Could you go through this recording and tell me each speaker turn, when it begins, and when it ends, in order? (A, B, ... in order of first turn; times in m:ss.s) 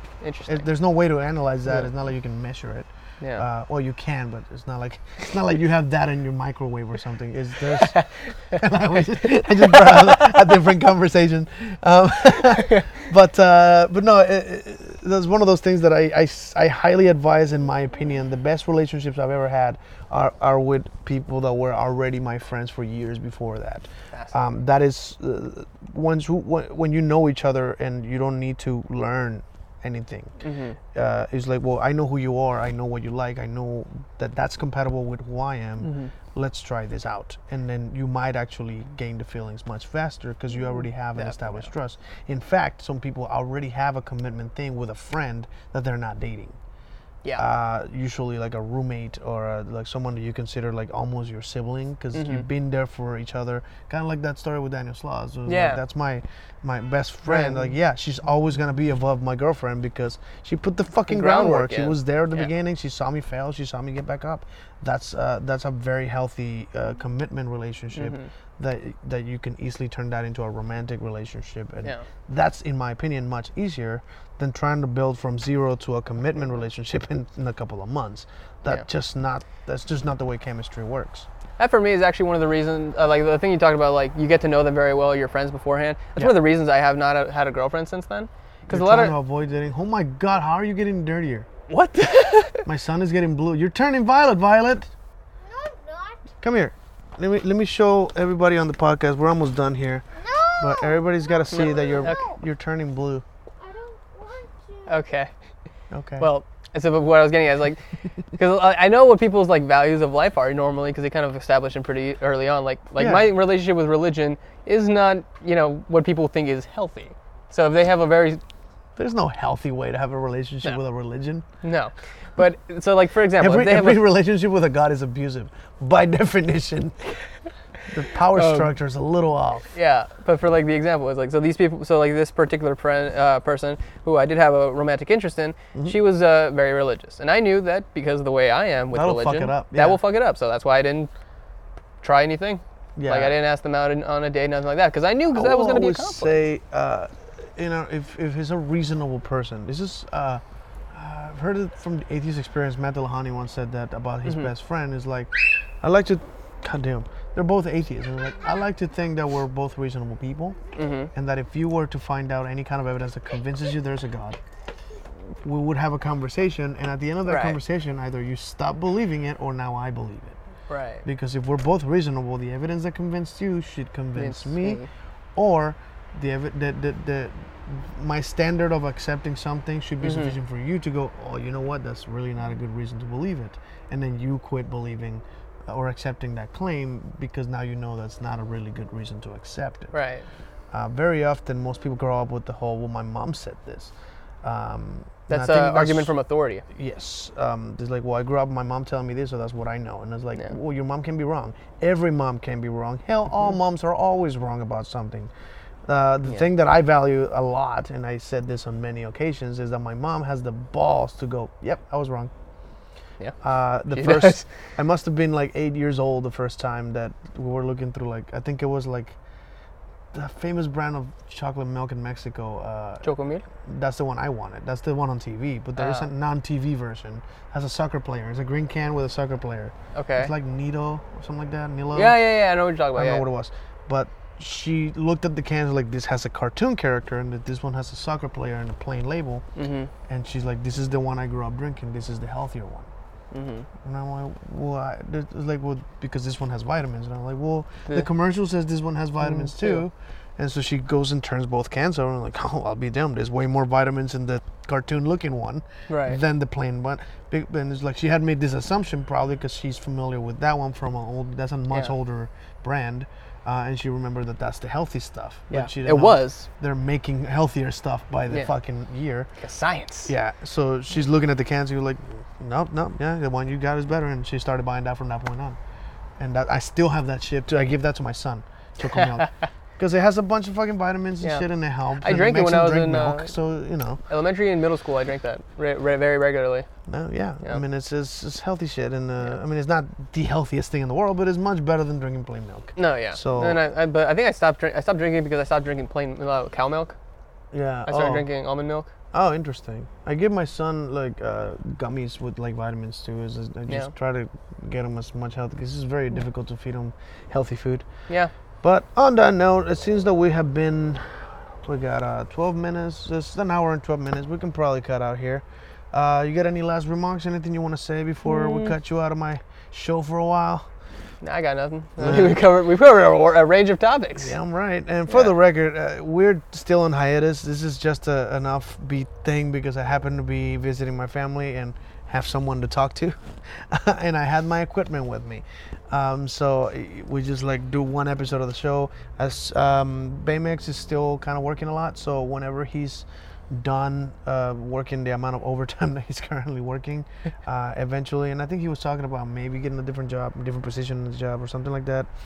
0:00.2-0:00.7 A
0:00.4-0:30.4 B
0:03.2-0:03.4 A
0:07.9-0:08.6 A
0:09.4-0:09.9 A
0:30.4-0:30.8 A
0:30.9-0:46.6 B
0:35.8-0:36.1 A
0:41.2-0:41.7 A
0:47.4-1:21.3 B
0:52.1-0:52.5 A
0:55.5-0:55.8 A
0:57.3-0:57.7 A
1:01.1-1:02.5 A
1:07.9-1:08.3 A
1:21.6-1:29.2 A
1:28.7-1:31.5 B
1:31.7-1:32.7 A
1:32.6-1:34.9 B
1:35.4-1:36.3 C
1:36.4-1:40.1 B
1:40.2-1:42.4 C
1:40.6-1:43.2 B
1:41.5-1:42.2 A
1:43.6-1:45.0 C
1:44.9-1:45.3 A
1:45.9-1:46.3 B
1:46.2-1:58.4 A
1:53.0-1:53.4 B
1:59.0-2:01.4 B
2:01.6-2:04.0 A
2:03.4-2:07.0 B
2:07.9-2:09.7 B
2:08.3-2:08.7 A
2:09.8-2:21.1 A
2:18.9-2:20.0 B
2:22.0-2:26.4 A
2:23.0-2:23.4 B
2:25.3-2:40.6 B
2:34.2-2:34.5 A
2:40.8-2:41.1 A
2:41.1-2:44.4 B
2:45.4-2:50.4 B
2:47.3-2:47.6 A
2:50.7-2:51.0 A
2:51.0-2:54.8 B
2:54.2-2:54.9 A
2:55.4-3:10.0 B
3:00.0-3:00.4 A
3:09.9-3:10.3 A
3:10.7-3:16.2 B
3:15.3-3:16.6 A
3:16.7-3:25.3 B
3:25.9-3:32.3 B
3:33.4-3:39.2 B
3:33.9-3:34.4 A
3:40.1-3:43.1 B
3:43.0-3:43.4 A
3:43.6-3:52.2 B
3:45.8-3:46.1 A
3:49.9-3:50.3 A
3:51.9-3:53.3 A
3:52.9-3:59.4 B
3:59.6-3:59.9 A
4:00.1-4:02.9 B
4:03.3-4:03.7 A
4:03.8-4:29.3 B
4:09.2-4:09.8 A
4:15.9-4:16.2 A
4:25.5-4:26.5 A
4:29.4-4:30.1 A
4:30.1-4:35.6 B
4:36.2-4:44.0 B
4:42.0-4:43.3 A
4:44.1-4:46.7 A
4:46.9-4:53.6 B
4:52.8-4:57.0 A
4:57.5-4:58.3 B
4:57.9-4:58.9 A
4:59.1-5:07.9 B
5:08.6-5:20.7 B
5:18.2-5:18.7 A
5:21.2-5:24.3 A
5:22.0-5:22.4 B
5:24.2-5:52.1 B